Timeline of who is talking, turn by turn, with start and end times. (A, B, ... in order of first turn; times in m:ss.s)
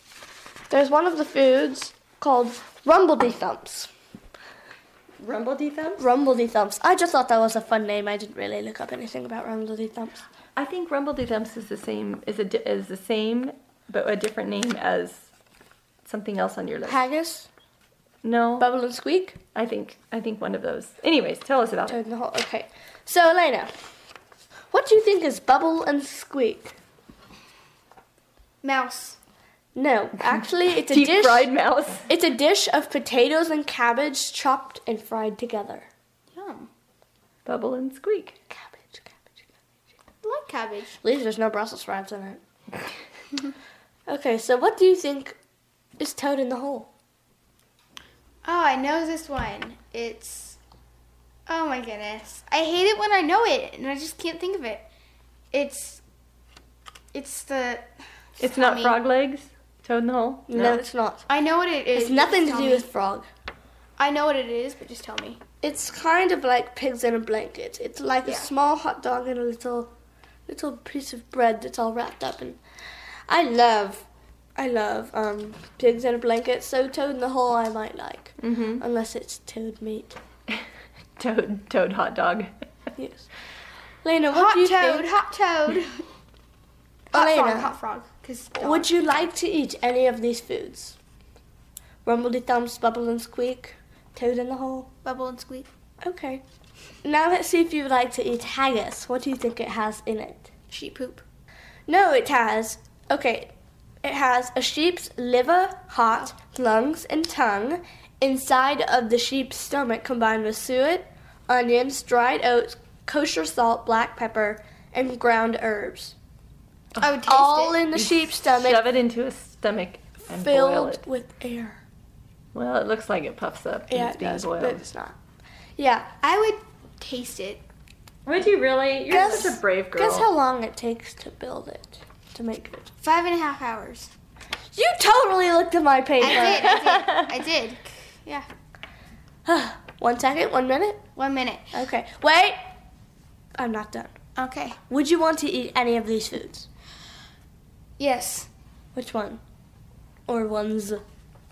0:00.7-0:03.9 A
0:05.2-0:06.0 B
0:06.0-0:10.2 A
0:10.6-0:15.3 B
0:16.0-0:17.0 B
0:16.9-0:17.5 A
0:18.2-0:18.7 B
0:18.6-0:19.4 A
0:19.6-0:22.0 B
0:21.9-0:23.7 A
0:24.7-0:26.7 A
0:28.6-0:29.2 C
0:29.8-0:31.5 A
0:30.7-0:32.1 B
0:32.1-0:35.9 A
0:36.3-0:36.7 C
0:37.4-0:38.4 B
0:38.5-0:39.4 A
0:40.2-0:41.0 C
0:41.0-0:42.4 A
0:44.1-0:45.4 A
0:46.0-0:46.9 A
0:48.4-0:50.6 C
0:51.5-0:54.9 C
0:55.5-0:56.0 C
0:57.1-0:59.0 C
0:58.4-1:00.8 B
1:00.5-1:01.2 A
1:01.3-1:02.9 C
1:01.9-1:03.3 A
1:04.0-1:05.4 C
1:05.6-1:09.9 A
1:10.5-1:12.6 A
1:13.3-1:14.0 A
1:14.6-1:20.2 A
1:18.4-1:18.8 B
1:21.2-1:22.5 B
1:23.0-1:23.3 A
1:24.0-1:25.1 A
1:24.3-1:25.9 C
1:27.1-1:28.9 C
1:27.1-1:27.7 A
1:28.6-1:31.0 A
1:32.0-1:34.9 A
1:35.0-1:35.7 C
1:36.0-1:36.4 A
1:37.0-1:40.5 A
1:40.7-1:41.2 C
1:41.9-1:43.5 A
1:44.0-1:56.2 A
1:57.0-1:57.8 C
1:57.3-1:58.8 A
1:58.0-2:01.0 B
2:00.3-2:01.8 A
2:02.5-2:04.8 B
2:03.9-2:05.2 A
2:05.8-2:06.1 A
2:06.2-2:07.6 C
2:08.3-2:10.3 B
2:09.1-2:12.9 A
2:13.0-2:14.1 C
2:14.7-2:16.7 A
2:16.2-2:18.5 C
2:16.3-2:17.3 B
2:19.5-2:21.0 A
2:21.2-2:21.7 C
2:21.7-2:22.6 A
2:23.6-2:24.1 A
2:24.4-2:24.8 C
2:24.9-2:26.7 A
2:28.0-2:28.5 C
2:29.0-2:29.4 A
2:30.3-2:31.0 A